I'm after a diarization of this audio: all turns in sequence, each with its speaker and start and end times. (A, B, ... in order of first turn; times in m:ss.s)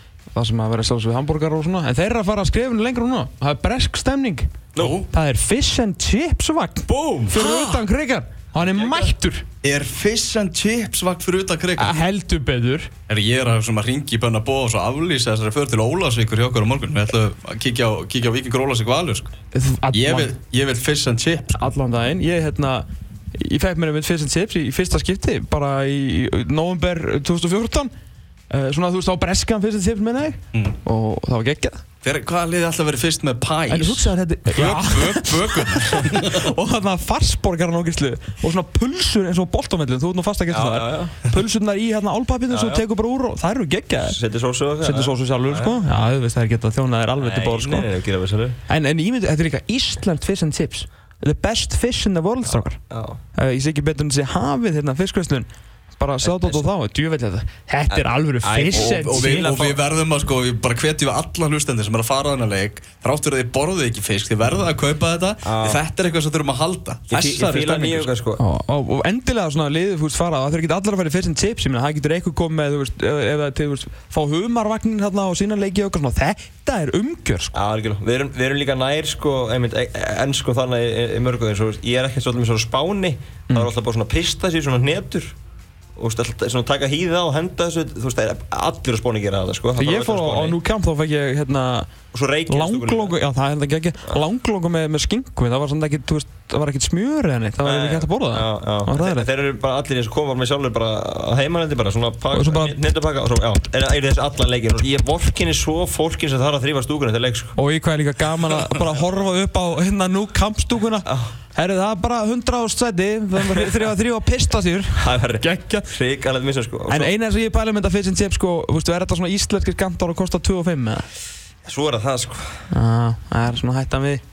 0:00.3-0:04.5 A
0:04.8-0:05.1 B
0:05.1-0:09.4 A
0:06.9-0:07.4 C
0:07.3-0:07.8 B
0:08.7-0:09.1 C
0:09.6-0:12.0 B
0:11.8-0:12.9 A
0:13.1-0:19.3 B
0:19.5-0:20.3 A
0:19.9-0:21.6 B
0:21.6-0:27.9 A
0:28.5-0:31.8 A
0:32.0-0:36.5 B
0:33.7-0:44.2 A
0:40.5-0:41.2 C
0:42.5-0:42.8 C
0:44.0-0:45.8 C
0:44.8-0:47.9 A
0:47.2-0:48.6 C
0:48.7-0:52.8 A
0:52.9-0:53.2 C
0:53.4-0:55.5 A
0:56.0-0:59.5 A
0:56.2-0:56.6 C
0:57.9-0:59.8 C
0:58.7-1:08.1 B
1:05.4-1:05.8 C
1:07.1-1:08.4 C
1:08.4-1:17.6 A
1:17.5-1:25.4 C
1:26.0-1:30.6 C
1:29.8-1:31.9 A
1:32.1-1:33.1 C
1:32.5-1:39.3 A
1:37.6-1:47.6 C
1:42.3-1:42.8 A
1:47.6-1:55.9 A
1:51.1-1:51.3 C
1:55.0-1:57.1 C
1:56.9-2:01.1 A
2:01.6-2:02.7 C
2:02.7-2:04.2 A